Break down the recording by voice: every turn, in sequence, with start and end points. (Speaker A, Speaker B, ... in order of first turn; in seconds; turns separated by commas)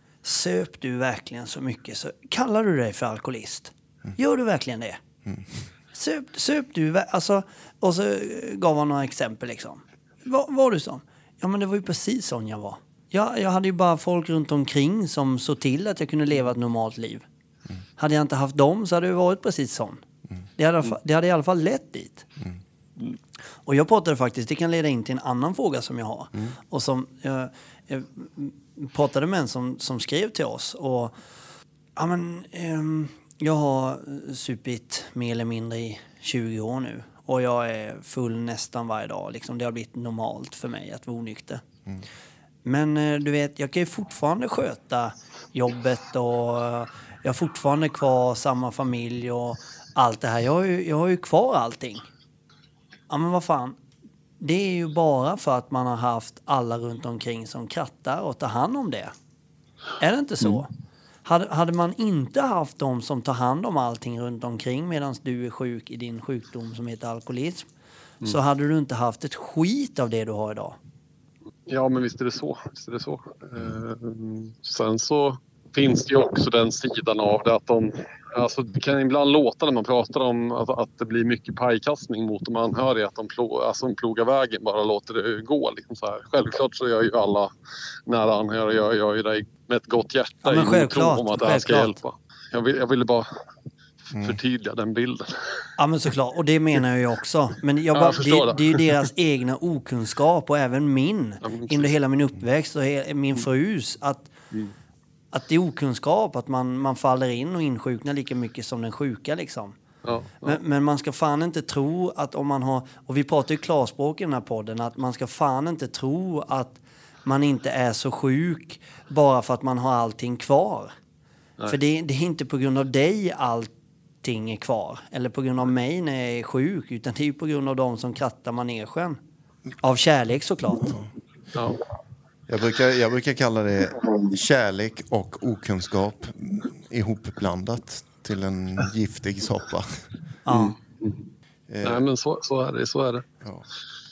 Speaker A: 0.2-5.0, Speaker B: 5.2-5.7, Speaker A: 5.9-17.2, Speaker A: 18.0-20.0, Speaker A: 20.6-22.3, Speaker A: 23.6-31.2, Speaker A: 32.0-41.6, Speaker A: 42.6-52.1, Speaker A: 53.1-53.8, Speaker A: 54.4-59.1, Speaker A: 60.0-60.7, Speaker A: 61.2-67.7, Speaker A: 68.2-70.8, Speaker C: 71.7-87.5, Speaker C: 88.1-93.3, Speaker A: 90.4-92.0, Speaker B: 94.1-94.4, Speaker C: 94.2-95.3, Speaker A: 95.8-104.3, Speaker C: 97.9-99.1, Speaker C: 101.4-101.9, Speaker A: 105.3-109.8, Speaker C: 110.0-110.6, Speaker A: 110.4-120.9, Speaker A: 121.7-123.7, Speaker A: 124.2-129.2, Speaker A: 129.8-131.0, Speaker C: 131.5-131.8, Speaker B: 132.5-140.0, Speaker A: 140.5-140.8, Speaker C: 140.5-141.2, Speaker B: 141.7-142.1, Speaker C: 141.8-143.2